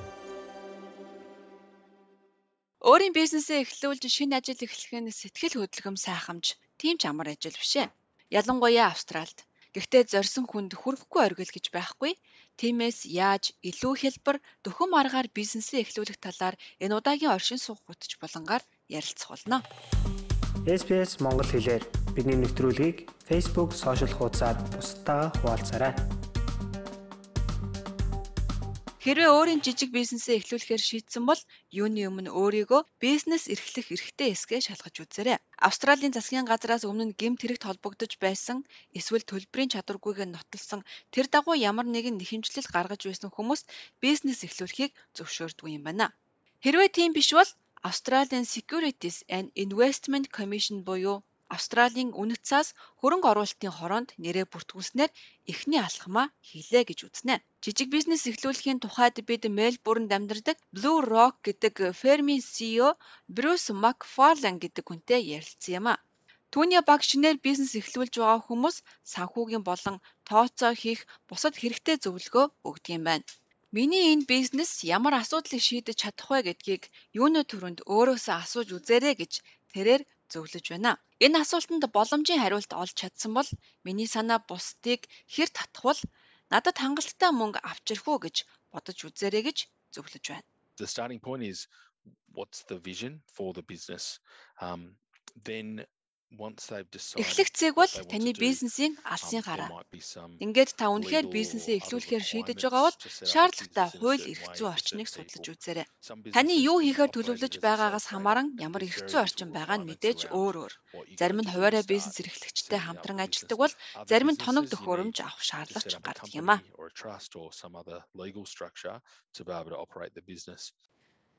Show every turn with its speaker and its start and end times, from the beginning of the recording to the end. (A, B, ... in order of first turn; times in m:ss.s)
0:02.8-0:19.6 A
0:20.7-0:26.0 B
0:29.0-0:46.1 A
0:46.6-1:06.0 A
1:06.5-1:30.4 A
1:30.8-1:31.7 C
1:32.2-1:38.6 C
1:37.2-1:39.7 A
1:39.2-1:40.4 C
1:40.4-1:56.6 A
1:40.9-2:00.8 C